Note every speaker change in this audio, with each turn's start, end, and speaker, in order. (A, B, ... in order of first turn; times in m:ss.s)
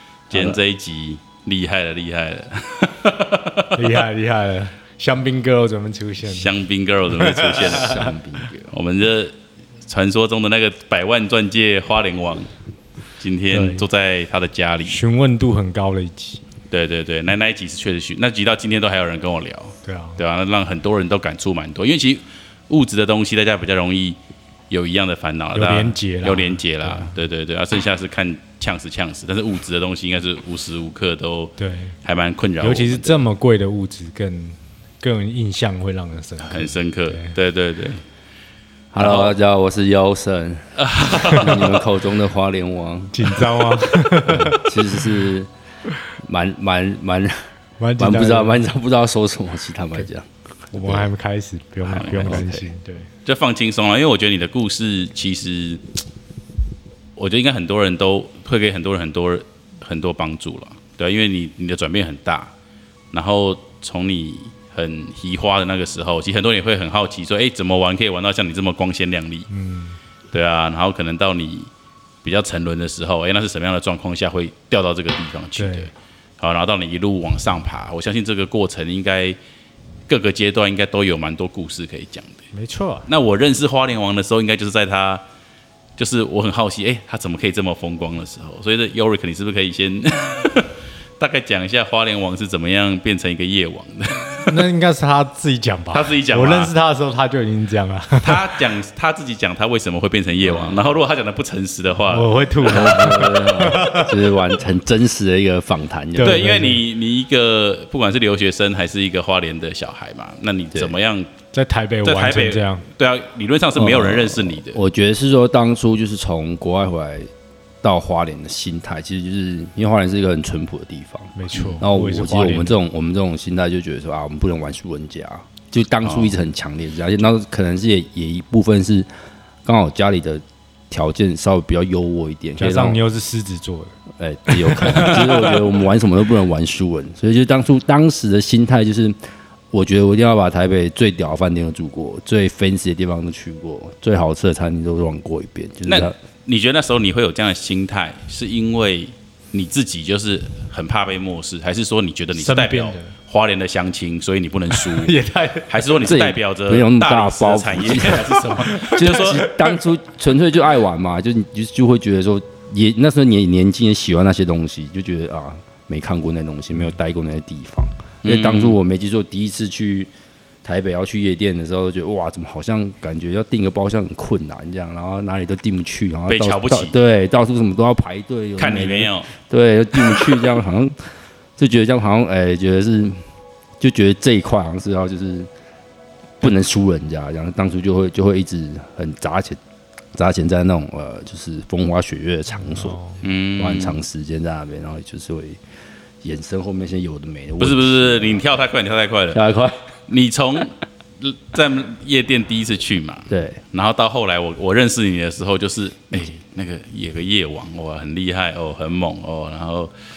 0:00.3-0:04.0 A
0:00.3-0:00.6 B
0:03.7-0:06.5 C
0:06.2-0:08.0 A
0:07.1-0:08.1 C
0:07.6-0:08.7 B
0:08.7-0:09.3 A
0:09.8-0:12.5 A
0:13.2-0:15.0 A
0:13.5-0:13.8 C
0:14.8-0:16.4 C
0:16.7-0:24.2 A
0:19.8-0:20.2 C
0:24.7-0:33.2 A
0:25.5-0:27.1 C
0:31.6-0:31.9 C
0:32.6-0:37.3 C
0:36.4-0:38.0 A
0:38.9-0:45.5 B
0:39.0-0:39.3 A
0:40.8-0:41.8 A
0:41.1-0:41.4 C
0:43.1-0:45.0 C
0:46.2-0:47.4 B
0:47.8-0:48.6 C
0:48.0-0:51.0 B
0:50.7-0:53.1 C
0:51.9-0:52.6 A
0:52.2-0:52.5 B
0:53.2-0:55.8 A
0:57.2-1:02.5 A
1:03.1-1:09.5 A
1:09.5-1:10.0 C
1:10.3-1:11.7 A
1:12.2-1:19.4 A
1:15.6-1:15.9 C
1:20.1-1:22.4 A
1:22.5-1:23.1 C
1:23.1-1:25.2 A
1:26.0-1:34.6 A
1:34.5-1:38.6 C
1:35.9-1:36.7 A
1:38.2-1:43.3 A
1:40.4-1:40.9 B
1:42.1-1:44.1 C
1:42.6-1:46.4 B
1:46.2-1:46.8 C
1:46.2-1:51.3 A
1:51.5-1:52.8 C
1:52.0-1:54.8 A
1:53.7-1:57.3 B
1:57.8-2:09.1 B
2:01.3-2:02.8 C
2:06.0-2:06.3 A
2:09.6-2:13.0 B
2:12.6-2:13.9 C
2:14.2-2:19.2 B
2:14.5-2:15.6 C
2:19.7-2:26.1 B
2:25.8-2:35.2 A
2:32.3-2:33.1 C
2:34.7-2:35.7 C
2:35.7-2:39.4 A
2:36.0-2:50.1 B
2:38.1-2:39.8 C
2:48.2-2:48.8 A
2:50.6-3:03.2 B
2:56.3-2:56.9 A
2:58.6-2:59.3 A
3:00.0-3:00.4 A
3:03.8-3:05.5 B
3:06.4-3:09.6 B
3:10.1-3:13.0 B
3:12.6-3:13.2 C
3:13.2-3:14.0 A
3:13.6-3:15.6 B
3:16.2-3:18.5 B
3:17.6-3:19.4 A
3:19.3-3:19.8 B
3:20.1-3:29.9 A
3:23.3-3:23.6 B